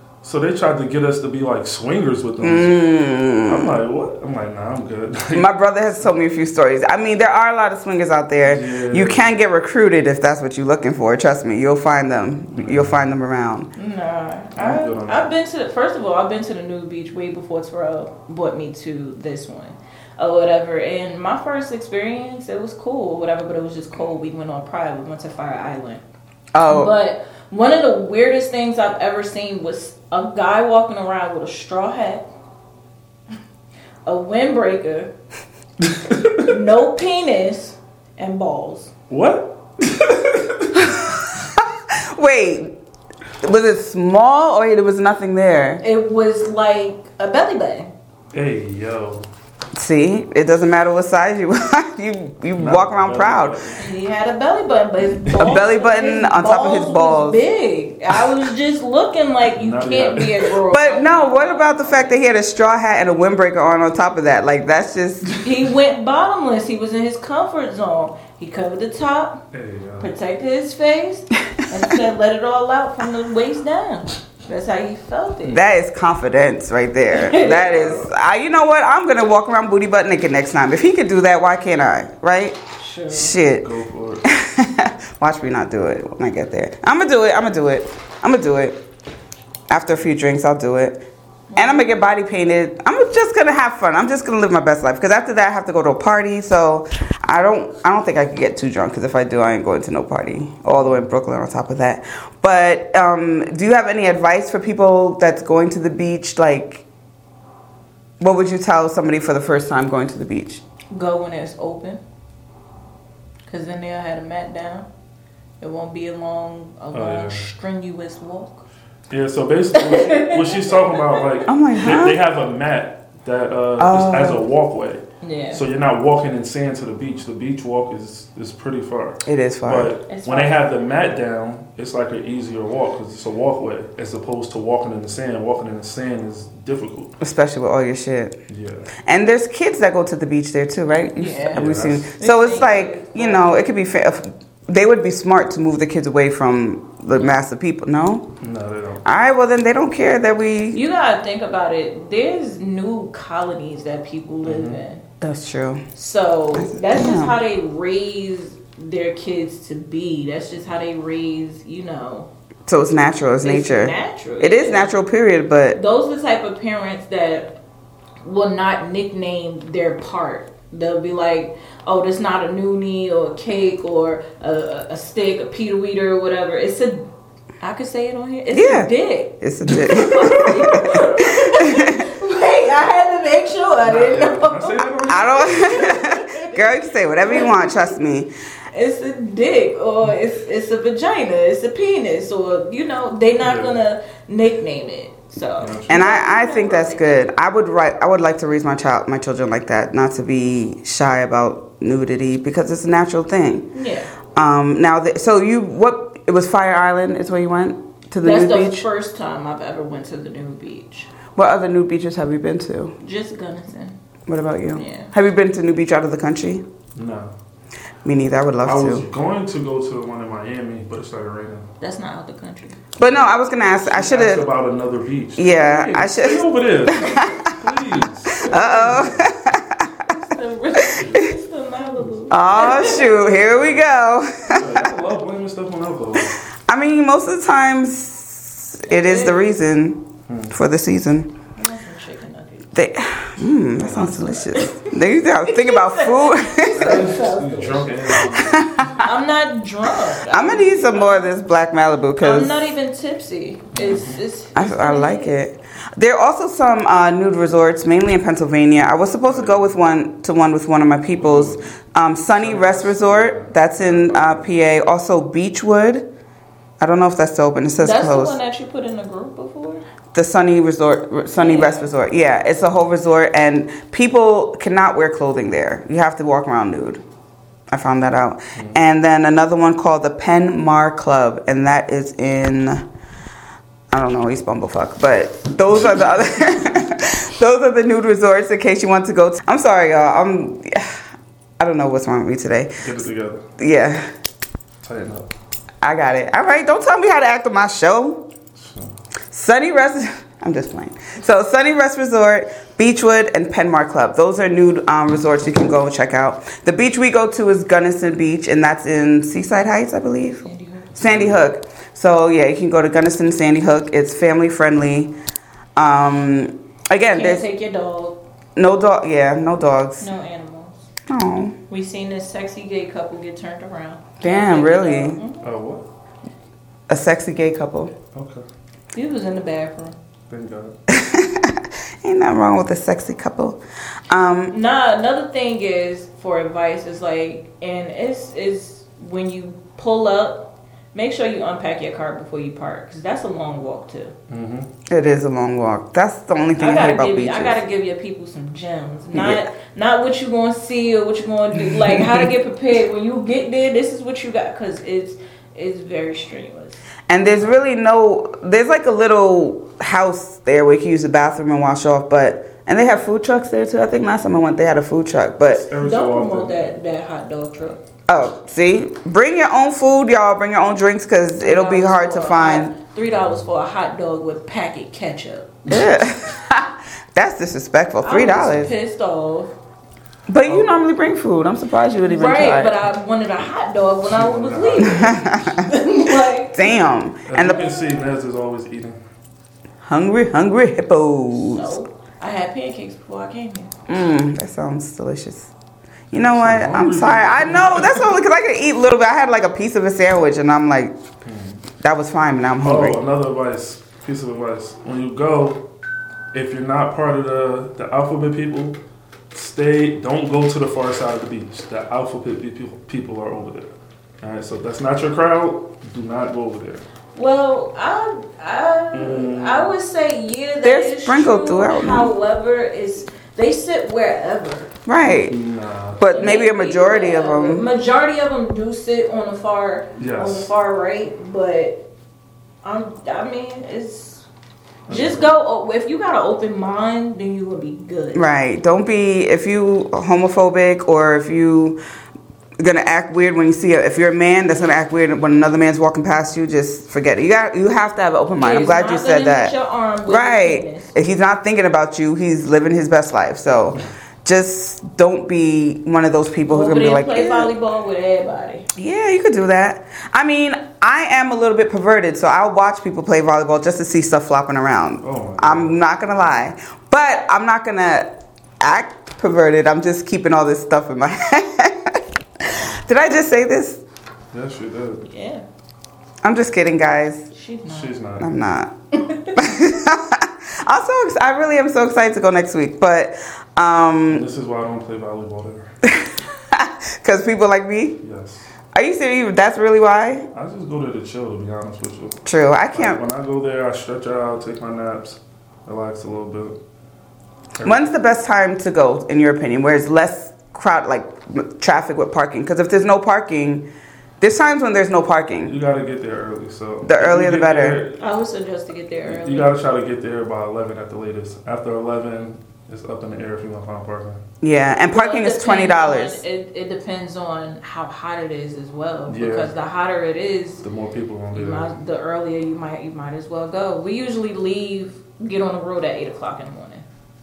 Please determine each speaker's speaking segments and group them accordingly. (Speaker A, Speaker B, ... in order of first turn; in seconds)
Speaker A: 0.2-2.8, 3.5-5.5, 8.4-9.2, 12.5-13.0, 14.6-15.3, 35.8-36.5, 39.1-41.0, 48.3-49.3, 52.6-53.8, 59.5-60.5, 69.5-70.1, 77.4-78.1, 83.5-84.2, 100.7-101.0, 116.9-117.5, 119.1-137.1, 138.5-138.9, 141.5-142.1, 148.4-149.0, 154.4-154.8, 183.8-186.0, 193.4-193.7, 195.6-196.0, 216.9-217.3, 218.6-221.7, 223.1-229.3, 231.0-231.2, 234.5-236.4, 240.3-240.5, 243.8-244.2, 246.7-249.0, 253.7-254.2, 259.3-259.7, 261.2-261.7, 262.3-264.5, 278.6-278.8, 292.8-293.4, 294.8-295.3, 298.5-298.9, 311.0-311.4, 325.4-325.8, 328.1-328.4, 330.3-330.7, 344.3-344.7, 365.5-366.7, 380.4-380.8, 384.1-385.2, 387.3-389.0, 396.1-398.2, 401.2-401.6, 402.6-405.6, 406.3-408.8, 409.3-416.8, 418.9-419.7, 425.0-426.1, 430.0-430.5, 434.9-435.3, 465.0-465.8, 474.3-475.1, 477.7-478.3, 484.1-485.7, 488.0-488.4, 490.3-496.6, 497.6-497.9, 505.4-508.0, 509.1-514.2, 519.1-519.5, 520.6-521.7
Speaker B: 2.4-3.8, 5.3-13.7, 26.5-26.9, 40.8-42.8, 43.4-45.8, 49.7-53.7, 55.4-57.4, 60.6-65.3, 75.5-82.6, 83.1-83.7, 84.2-88.8, 89.7-91.0, 91.5-106.8, 108.2-110.6, 121.5-122.2, 123.8-124.4, 129.2-129.9, 137.2-138.4, 139.0-148.3, 149.0-150.8, 155.2-155.8, 156.5-157.4, 162.7-165.8, 178.5-182.0, 185.1-188.3, 195.9-203.7, 204.3-208.8, 211.3-212.9, 214.3-216.6, 218.0-219.1, 223.0-224.5, 225.4-227.6, 228.4-230.1, 232.3-234.9, 236.2-241.3, 242.7-247.1, 248.2-249.1, 250.3-252.7, 254.6-266.1, 266.8-268.4, 270.1-277.0, 277.7-282.9, 283.9-291.0, 291.6-292.8, 293.6-294.1, 295.8-298.2, 299.3-315.1, 315.8-317.5, 318.6-320.0, 321.1-321.6, 324.2-325.2, 326.9-327.9, 330.9-334.5, 344.9-347.6, 349.1-349.4, 357.1-365.6, 368.1-372.7, 375.7-378.7, 380.3-382.7, 384.8-385.7, 386.5-387.8, 389.8-391.7, 393.9-395.5, 396.1-400.9, 401.8-403.0, 420.6-422.1, 424.9-425.4, 426.0-427.6, 438.1-441.8, 442.6-449.5, 450.1-457.5, 458.7-473.8, 476.2-477.3, 478.2-484.2, 485.8-488.0, 488.7-490.3, 492.2-493.0, 497.6-503.7, 504.2-505.5, 506.8-507.8, 514.4-516.2
Speaker C: 13.8-26.0, 26.6-32.3, 34.0-35.1, 36.4-38.9, 45.8-47.9, 53.8-62.2, 65.3-69.4, 70.0-75.6, 77.1-78.0, 82.8-83.3, 91.5-91.9, 110.9-112.0, 113.5-114.9, 115.6-118.6, 119.8-121.2, 125.2-125.6, 130.1-130.6, 141.2-141.6, 142.2-143.6, 150.7-155.0, 155.9-162.3, 163.4-164.9, 165.7-167.6, 168.2-177.1, 177.6-187.9, 188.7-197.2, 203.7-204.1, 208.2-211.1, 213.0-213.9, 214.7-215.1, 221.8-222.8, 228.4-229.0, 230.0-233.4, 238.9-239.5, 241.6-242.7, 244.3-244.9, 245.4-251.3, 252.2-255.3, 267.8-269.8, 271.4-271.9, 310.4-311.0, 317.1-318.2, 320.0-320.9, 321.7-325.4, 328.9-330.0, 334.5-344.1, 346.6-356.8, 365.8-367.8, 371.4-375.8, 378.0-379.5, 382.1-386.8, 391.3-393.7, 417.1-424.7, 426.1-431.8, 432.6-434.2, 434.9-438.2, 448.4-450.9, 456.5-458.7, 475.1-475.4, 477.3-477.9, 479.1-479.3, 508.0-509.5, 514.9-520.6, 521.3-526.8